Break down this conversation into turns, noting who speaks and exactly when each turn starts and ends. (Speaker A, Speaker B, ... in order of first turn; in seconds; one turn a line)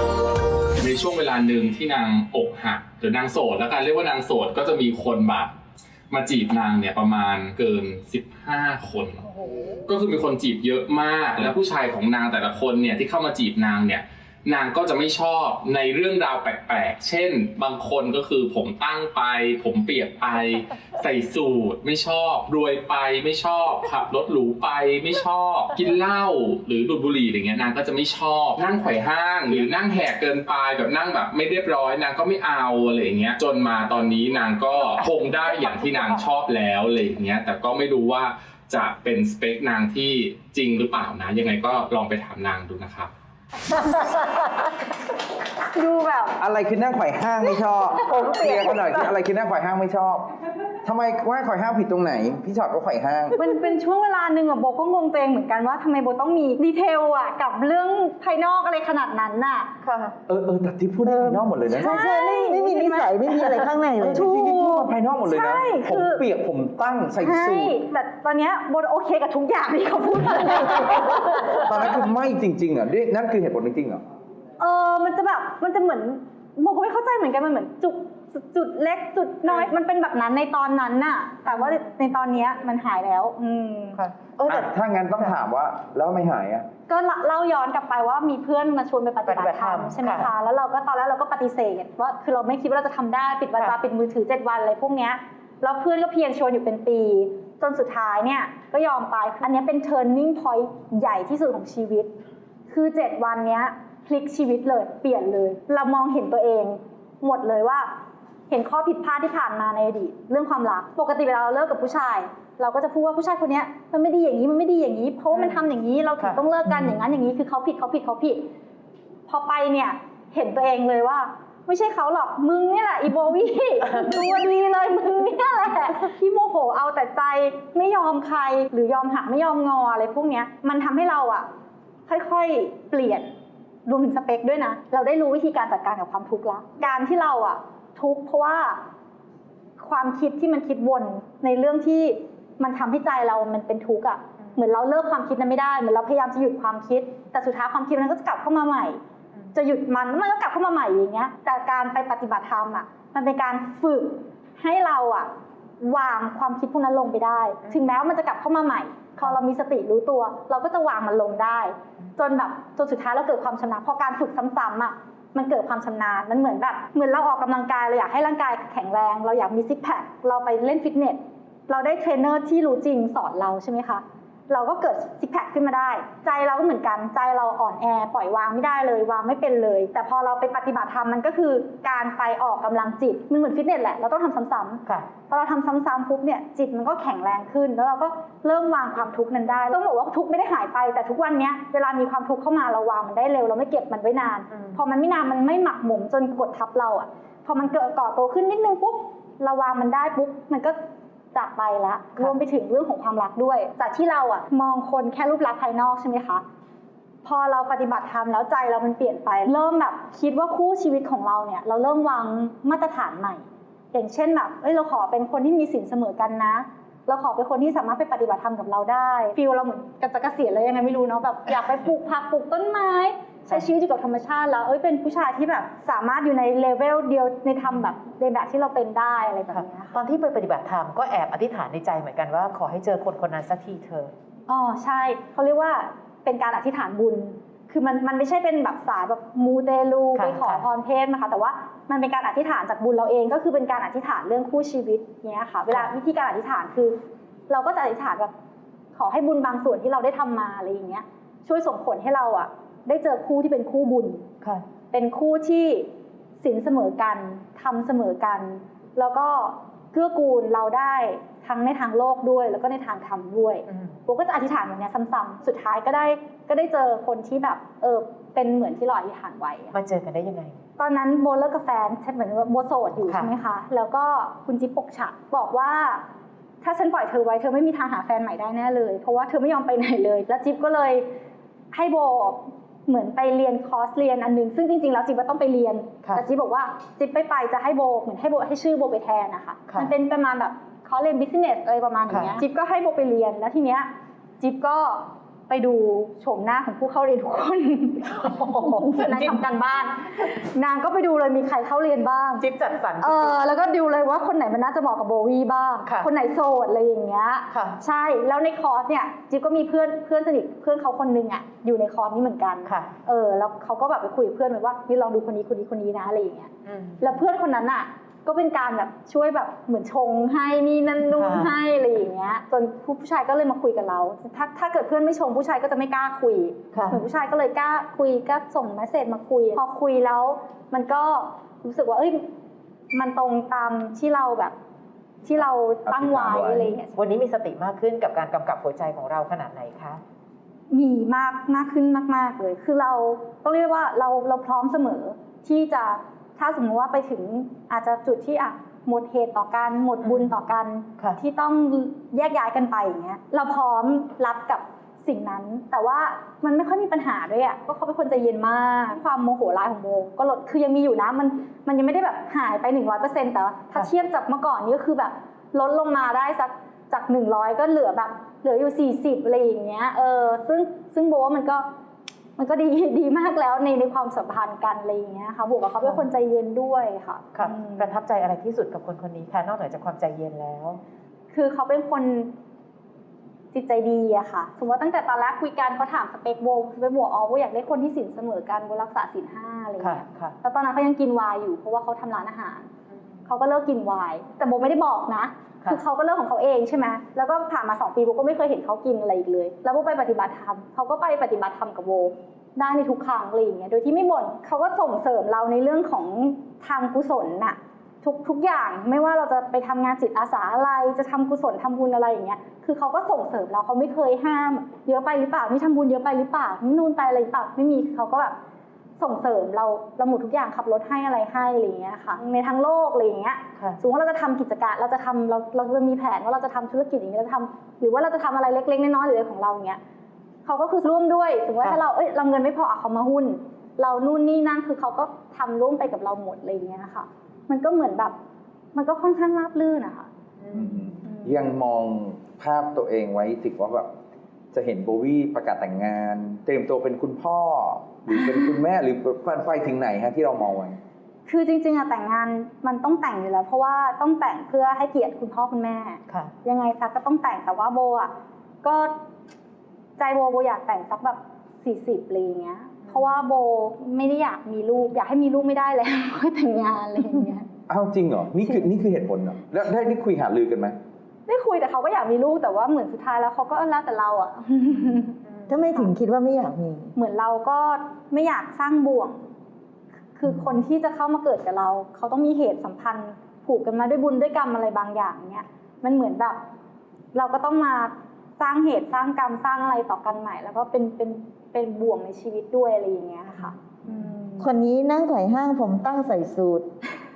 Speaker A: 0.8-5.5
Speaker A: 6.1-43.1
Speaker B: 45.7-46.4
Speaker C: 46.4-50.3
Speaker B: 48.0-48.6
Speaker D: 48.0-49.1
Speaker C: 50.8-53.4
Speaker B: 53.4-59.7
Speaker D: 59.8-60.1
Speaker C: 60.3-62.0
Speaker E: 61.0-64.3
Speaker B: 61.7-66.2
Speaker C: 64.0-67.8
Speaker B: 67.2-71.7
Speaker C: 71.6-74.0
Speaker B: 74.6-84.0
Speaker D: 79.5-79.7
Speaker D: 81.5-81.8
Speaker D: 84.0-85.3
Speaker C: 84.5-86.7
Speaker B: 86.9-102.1
Speaker D: 89.2-90.3
Speaker B: 102.7-107.9
Speaker B: 108.5-118.5
Speaker D: 115.3-115.6
Speaker D: 116.2-116.9
Speaker B: 119.3-131.5
Speaker B: 132.1-133.3
Speaker B: 133.8-138.8
Speaker B: 139.8-149.0
Speaker B: 149.5-200.8
Speaker D: 157.6-157.9
Speaker D: 194.5-194.8
Speaker B: 201.3-206.4
Speaker B: 207.2-230.0
Speaker D: 229.5-234.1
Speaker B: 234.5-246.9
Speaker D: 240.2-240.6
Speaker B: 247.5-248.3
Speaker B: 248.9-254.2
Speaker B: 254.9-255.9
Speaker B: 256.4-269.8
Speaker D: 263.7-263.9
Speaker D: 269.7-270.6
Speaker B: 270.8-276.0
Speaker D: 273.1-273.3
Speaker B: 276.6-281.1
Speaker B: 281.7-293.9
Speaker D: 292.1-292.4
Speaker B: 294.4-302.4
Speaker D: 298.1-299.4
Speaker D: 302.4-303.4
Speaker B: 303.0-332.2
Speaker D: 305.8-306.1
Speaker D: 307.5-307.8
Speaker D: 312.6-312.9
Speaker D: 316.6-317.1
Speaker D: 321.1-321.5
Speaker D: 326.7-327.0
Speaker B: 332.9-334.5
Speaker B: 335.2-337.0
Speaker C: 335.9-336.7
Speaker D: 336.9-340.0
Speaker B: 340.7-371.6
Speaker D: 350.0-350.3
Speaker B: 372.4-377.9
Speaker D: 377.3-380.8
Speaker B: 381.3-382.3
Speaker B: 383.5-392.7
Speaker D: 389.8-390.3
Speaker B: 393.3-418.4
Speaker B: 419.0-429.8
Speaker B: 430.4-438.1
Speaker B: 438.7-440.1
Speaker D: 440.4-440.7
Speaker C: 440.5-443.9
Speaker C: 444.5-450.8
Speaker B: 451.2-458.1
Speaker B: 458.6-458.9
Speaker B: 460.0-467.5
Speaker C: 467.7-470.8
Speaker B: 471.3-475.2
Speaker E: 475.5-476.9
Speaker B: 476.9-479.2
Speaker B: 480.1-486.4
Speaker B: 487.1-494.4
Speaker E: 494.4-496.7